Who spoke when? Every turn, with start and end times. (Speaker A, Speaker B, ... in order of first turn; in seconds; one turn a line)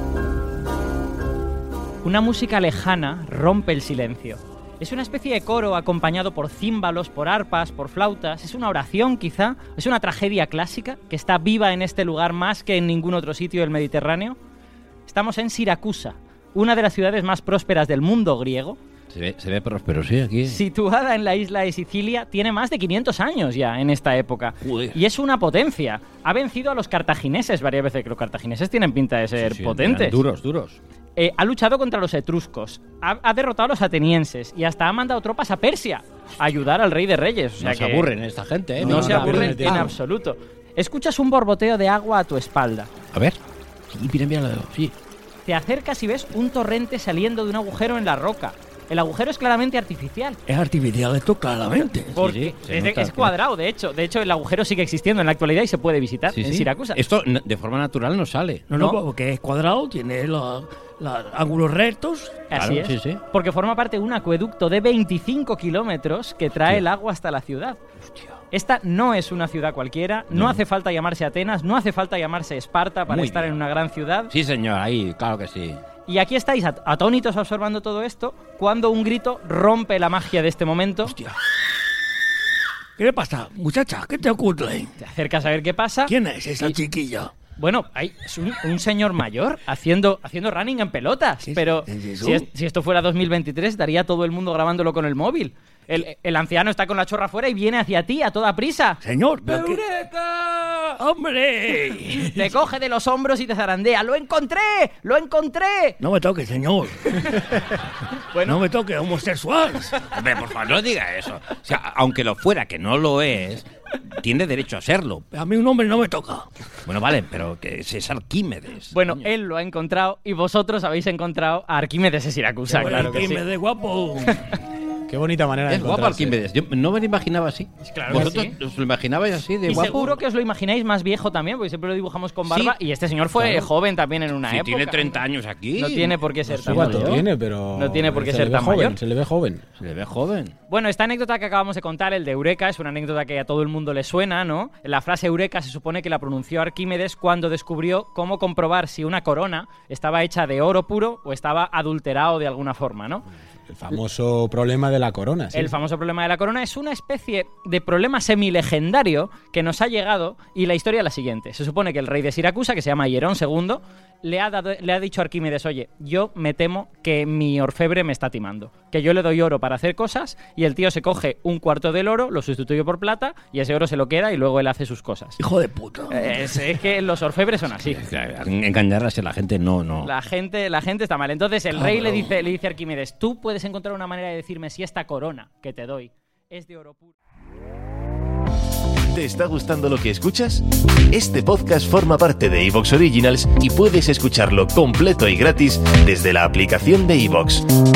Speaker A: 2.0-14.4
Speaker A: 15.1-18.8
Speaker B: 19.1-20.6
Speaker A: 20.4-30.2
Speaker B: 24.6-25.0
Speaker B: 29.4-30.8
Speaker A: 31.1-38.1
Speaker B: 37.6-39.9
Speaker C: 38.8-40.0
Speaker A: 38.8-42.9
Speaker B: 43.9-44.9
Speaker A: 45.5-50.4
Speaker D: 50.5-52.2
Speaker A: 52.1-57.0
Speaker B: 52.2-53.3
Speaker B: 56.3-58.8
Speaker D: 58.7-62.5
Speaker A: 58.7-59.0
Speaker A: 62.5-67.8
Speaker B: 62.5-63.2
Speaker B: 68.0-68.3
Speaker A: 68.5-74.3
Speaker B: 70.3-70.6
Speaker B: 73.1-73.5
Speaker B: 74.3-75.8
Speaker A: 76.1-81.2
Speaker D: 83.0-84.9
Speaker A: 85.0-86.8
Speaker D: 86.1-87.3
Speaker A: 87.6-99.0
Speaker D: 91.4-92.5
Speaker D: 99.0-99.8
Speaker D: 101.0-102.4
Speaker A: 102.2-106.0
Speaker D: 106.0-107.4
Speaker A: 108.3-108.6
Speaker D: 108.5-110.1
Speaker B: 110.0-115.2
Speaker D: 115.3-116.5
Speaker B: 116.8-119.2
Speaker A: 118.9-123.4
Speaker C: 122.7-123.4
Speaker D: 122.8-124.4
Speaker C: 125.1-126.4
Speaker B: 125.7-130.2
Speaker A: 127.8-128.5
Speaker A: 129.7-135.2
Speaker B: 132.5-132.8
Speaker B: 133.3-133.7
Speaker B: 134.4-137.2
Speaker A: 135.8-139.0
Speaker C: 136.6-139.6
Speaker B: 139.8-140.5
Speaker A: 140.7-153.2
Speaker C: 153.7-155.8
Speaker A: 155.5-175.4
Speaker D: 175.4-176.6
Speaker A: 176.1-178.0
Speaker B: 177.8-180.1
Speaker A: 180.0-187.1
Speaker D: 181.7-182.3
Speaker E: 189.2-197.6